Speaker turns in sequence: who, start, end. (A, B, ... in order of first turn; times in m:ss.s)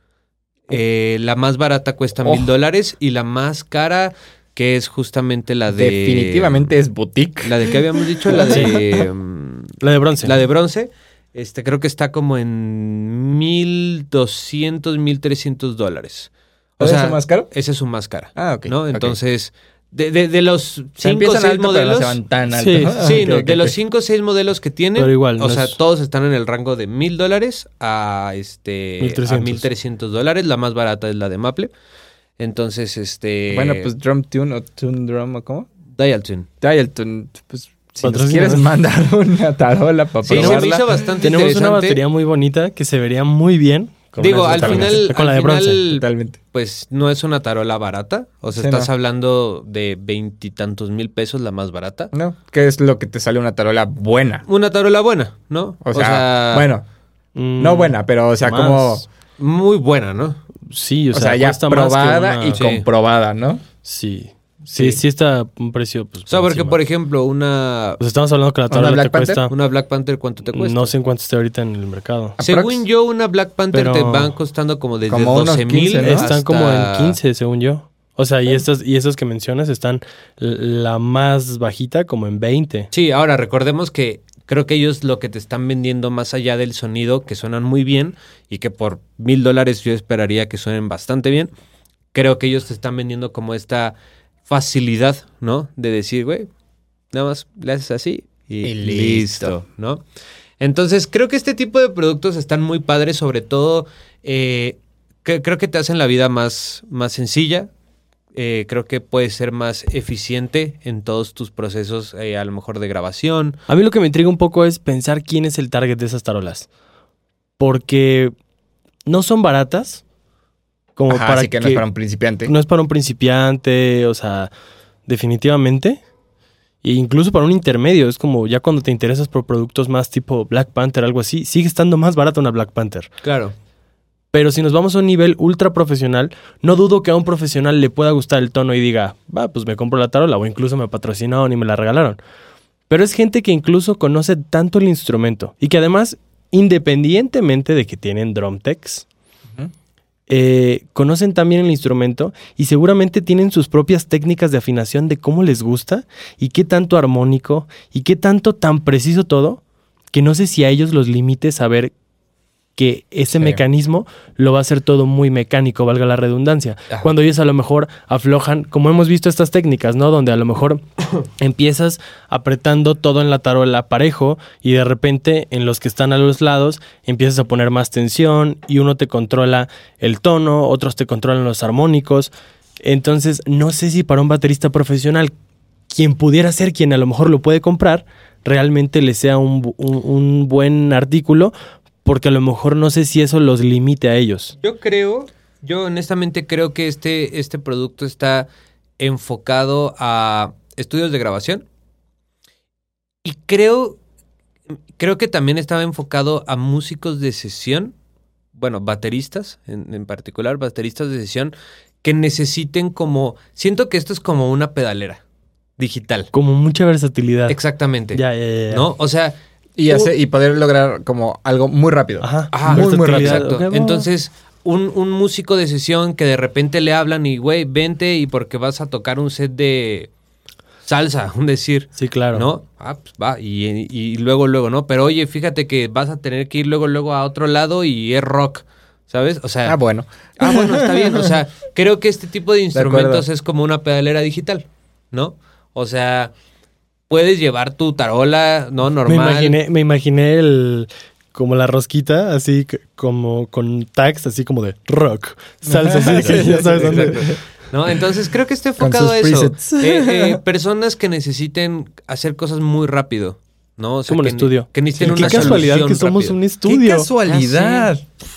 0:00.7-0:06.7 A
0:05.7-0:07.7 B
0:07.4-0:22.2 A
0:08.3-0:08.8 B
0:08.5-0:08.8 C
0:09.8-0:10.4 C
0:16.8-0:17.5 B
0:18.4-0:19.2 B
0:21.0-0:23.7 B
0:22.5-0:23.4 C
0:23.0-0:31.7 A
0:25.0-0:25.8 C
0:29.0-0:29.7 C
0:32.4-0:33.9 A
0:33.5-0:35.7 B
0:35.9-0:36.5 A
0:36.6-0:41.0 B
0:38.0-0:38.7 C
0:40.2-0:42.0 A
0:40.3-0:45.9 C
0:44.2-0:52.1 A
0:44.5-0:45.0 B
0:45.9-0:46.4 B
0:48.6-0:48.9 B
0:52.1-0:54.4 B
0:54.5-0:56.7 A
0:55.8-0:56.8 B
0:57.4-0:59.0 C
0:57.6-0:59.0 B
0:59.4-1:00.4 A
1:00.6-1:02.6 C
1:01.1-1:03.6 B
1:02.6-1:02.8 A
1:03.8-1:06.8 C
1:06.3-1:08.0 A
1:08.0-1:09.5 C
1:08.7-1:09.4 B
1:09.5-1:10.9 A
1:10.5-1:12.4 C
1:12.4-1:12.8 B
1:12.4-1:17.2 A
1:13.7-1:14.3 C
1:15.1-1:16.4 B
1:16.0-1:22.9 C
1:22.9-1:31.5 A
1:32.1-1:36.5 A
1:37.1-1:40.0 A
1:38.6-1:39.6 B
1:40.6-1:47.7 A
1:48.3-1:53.6 A
1:53.7-1:56.7 C
1:57.6-1:58.3 C
1:59.1-2:00.0 C
2:01.0-2:01.8 C
2:01.1-2:02.5 B
2:02.5-2:04.5 C
2:05.1-2:06.0 C
2:06.8-2:13.1 C
2:13.2-2:13.5 A
2:14.3-2:22.2 C
2:22.9-2:29.1 C
2:30.3-2:39.6 C
2:40.1-2:41.9 C
2:42.8-3:05.3 C
2:43.3-2:43.6 B
3:05.9-3:11.5 C
3:12.0-3:14.6 C
3:14.6-3:18.5 A
3:19.0-3:21.6 A
3:23.2-3:24.0 A
3:25.0-3:28.0 A
3:28.6-3:35.2 A
3:35.8-3:36.3 A
3:36.3-3:37.6 C
3:37.5-3:40.1 A
3:38.1-3:38.9 C
3:39.8-3:43.5 B
3:42.2-3:44.1 C
3:42.5-3:50.1 A
3:50.8-3:59.8 A
3:52.0-3:52.5 C
3:59.6-4:01.3 B
4:00.4-4:06.3 A
4:02.7-4:03.3 B
4:07.1-4:09.6 A
4:09.1-4:17.3 C
4:15.7-4:17.4 B
4:16.1-4:26.4 A
4:18.8-4:20.4 B
4:24.1-4:27.1 C
4:25.0-4:25.7 B
4:26.6-4:28.1 B
4:27.1-4:27.9 A